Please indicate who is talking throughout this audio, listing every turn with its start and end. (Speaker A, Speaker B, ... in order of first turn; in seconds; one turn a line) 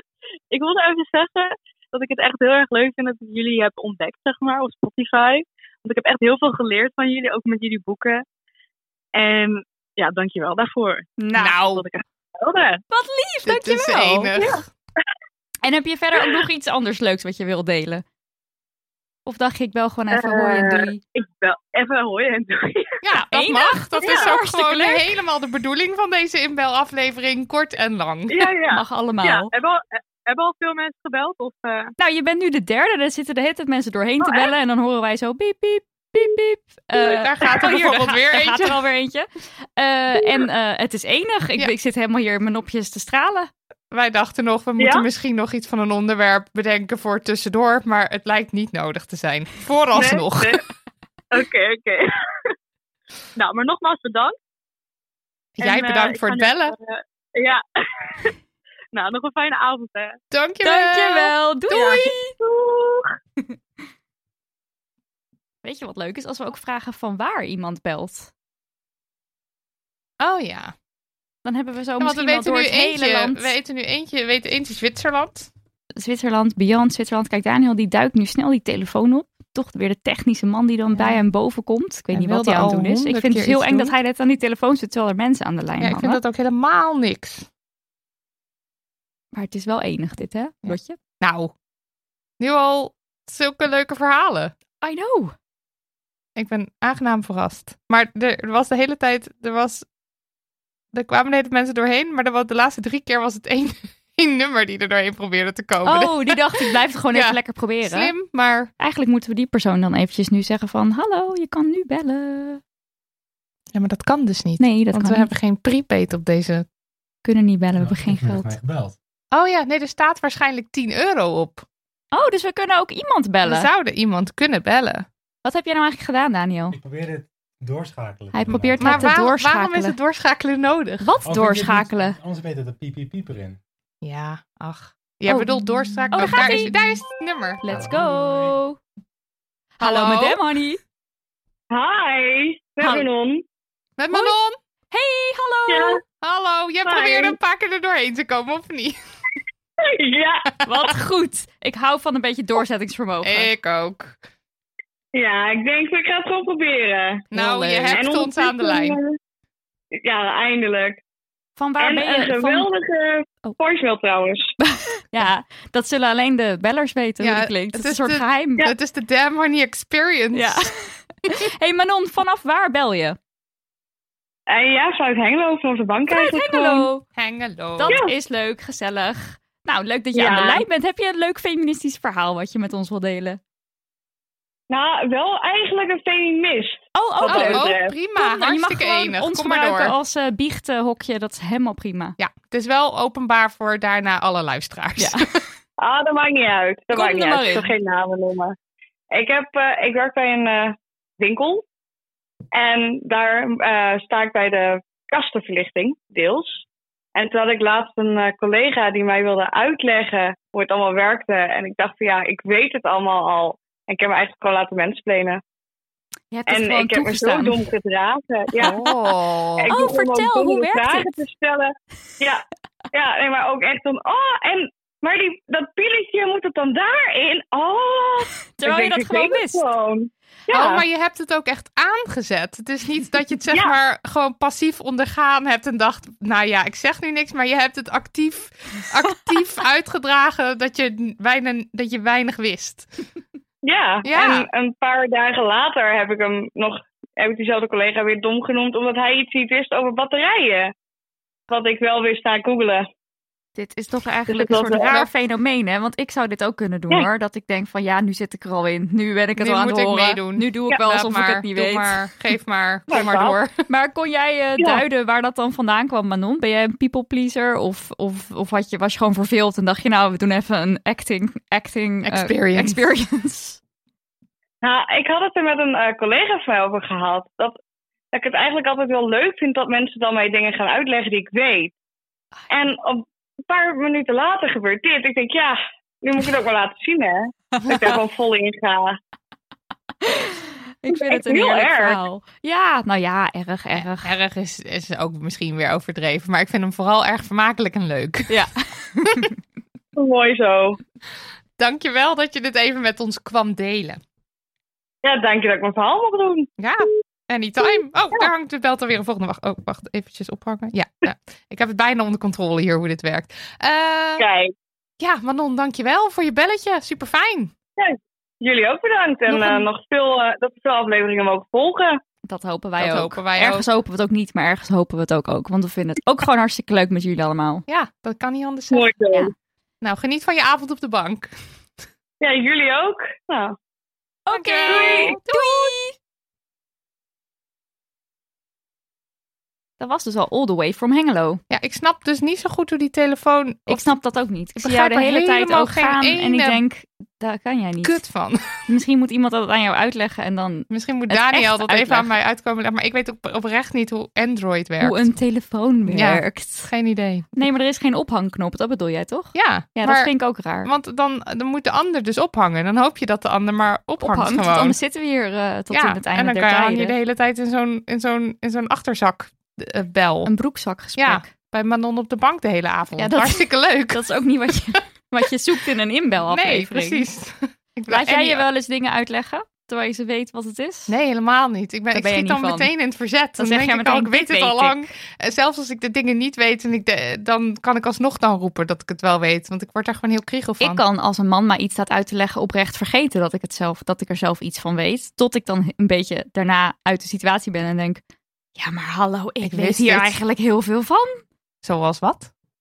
Speaker A: 0.5-8.2
Speaker A: 9.2-11.1
Speaker B: 11.2-11.7
Speaker C: 11.4-11.8
Speaker A: 11.7-12.8
Speaker B: 12.9-14.3
Speaker C: 13.4-14.6
Speaker B: 15.6-18.0
Speaker B: 19.3-21.0
Speaker A: 20.2-23.0
Speaker C: 23.0-28.5
Speaker B: 23.3-25.0
Speaker A: 24.0-24.3
Speaker A: 28.3-31.9
Speaker B: 28.7-29.5
Speaker B: 32.0-39.3
Speaker C: 37.0-38.8
Speaker B: 39.8-43.5
Speaker C: 43.9-50.6
Speaker A: 50.0-50.6
Speaker A: 51.3-52.0
Speaker A: 53.4-54.4
Speaker C: 55.6-56.8
Speaker A: 55.6-58.3
Speaker A: 58.9-60.2
Speaker C: 60.3-61.3
Speaker B: 60.6-62.3
Speaker A: 61.7-62.9
Speaker B: 65.6-68.3
Speaker C: 70.2-70.7
Speaker B: 71.5-73.5
Speaker C: 72.0-75.5
Speaker B: 76.0-86.2
Speaker C: 82.1-83.9
Speaker C: 85.8-87.5
Speaker B: 89.3-91.0
Speaker C: 90.7-91.5
Speaker C: 92.4-94.5
Speaker B: 94.8-95.3
Speaker C: 96.4-99.8
Speaker C: 100.9-108.7
Speaker B: 105.8-108.1
Speaker B: 108.8-112.6
Speaker C: 113.7-116.7
Speaker B: 114.6-115.3
Speaker B: 117.2-118.5
Speaker D: 117.8-119.0
Speaker C: 119.3-121.7
Speaker B: 122.1-123.7
Speaker C: 123.4-125.1
Speaker B: 125.5-126.8
Speaker D: 126.7-129.1
Speaker B: 128.3-129.9
Speaker C: 128.8-131.1
Speaker B: 131.0-132.2
Speaker D: 131.2-133.6
Speaker C: 134.0-137.6
Speaker B: 135.3-135.6
Speaker B: 136.1-136.8
Speaker B: 137.6-138.8
Speaker D: 137.7-138.6
Speaker B: 139.8-140.8
Speaker C: 139.8-140.4
Speaker E: 141.7-143.4
Speaker B: 142.8-143.1
Speaker C: 144.0-144.6
Speaker B: 144.9-146.0
Speaker E: 145.7-146.0
Speaker C: 146.1-148.9
Speaker E: 146.8-147.4
Speaker E: 150.0-150.4
Speaker B: 150.7-153.5
Speaker C: 153.2-154.2
Speaker E: 155.1-157.2
Speaker C: 157.3-159.0
Speaker B: 157.3-158.0
Speaker E: 157.9-159.1
Speaker E: 160.0-161.0
Speaker B: 161.6-162.7
Speaker E: 161.8-164.4
Speaker B: 164.6-168.7
Speaker C: 167.2-170.7
Speaker B: 170.3-173.2
Speaker E: 174.5-176.9
Speaker B: 176.1-177.0
Speaker C: 177.2-178.0
Speaker B: 177.8-183.4
Speaker E: 177.9-178.1
Speaker E: 180.1-180.6
Speaker E: 184.7-187.9
Speaker B: 186.9-192.2
Speaker C: 187.2-189.9
Speaker C: 192.2-195.2
Speaker E: 195.8-198.5
Speaker B: 196.9-197.7
Speaker E: 199.1-201.6
Speaker E: 202.5-206.6
Speaker E: 207.2-215.4
Speaker B: 216.3-217.6
Speaker E: 216.5-218.8
Speaker C: 218.6-219.7
Speaker E: 219.6-222.4
Speaker B: 219.7-221.1
Speaker E: 222.9-230.8
Speaker B: 228.6-229.7
Speaker C: 230.5-242.9
Speaker E: 243.6-250.7
Speaker C: 244.0-244.5
Speaker E: 251.5-252.8
Speaker B: 253.6-262.0
Speaker E: 254.3-255.1
Speaker C: 259.4-263.5
Speaker E: 262.9-263.4
Speaker B: 263.7-273.6
Speaker C: 272.1-272.8
Speaker E: 274.6-277.6
Speaker E: 278.1-281.7
Speaker E: 282.5-288.9
Speaker B: 290.1-294.1
Speaker E: 290.9-292.0
Speaker C: 294.0-298.3
Speaker B: 298.3-299.3
Speaker E: 300.0-300.8
Speaker C: 301.6-304.0
Speaker E: 305.0-306.5
Speaker C: 306.6-314.3
Speaker E: 314.2-314.5
Speaker C: 315.0-317.5
Speaker E: 317.8-322.0
Speaker B: 319.3-319.6
Speaker B: 322.3-327.6
Speaker C: 322.8-323.6
Speaker C: 327.7-329.0
Speaker E: 328.7-329.3
Speaker C: 329.8-331.3
Speaker E: 332.2-333.6
Speaker B: 334.3-335.9
Speaker C: 334.3-335.7
Speaker E: 334.7-335.2
Speaker B: 339.8-341.4
Speaker C: 341.5-343.9
Speaker B: 343.7-348.0
Speaker C: 344.6-346.6
Speaker C: 347.8-348.4
Speaker B: 348.7-352.1
Speaker C: 350.7-355.1
Speaker B: 354.8-356.7
Speaker C: 355.9-357.3
Speaker B: 357.4-360.7
Speaker C: 359.4-360.1
Speaker C: 360.6-364.8
Speaker B: 364.0-366.9
Speaker C: 365.7-370.3
Speaker B: 370.3-371.3
Speaker C: 371.0-374.1
Speaker B: 373.0-377.1
Speaker C: 376.3-378.4
Speaker B: 377.9-380.9
Speaker C: 380.9-390.8
Speaker B: 381.9-382.7
Speaker B: 383.4-384.9
Speaker B: 390.6-398.0
Speaker B: 398.6-401.2
Speaker C: 399.4-400.2
Speaker C: 401.6-402.3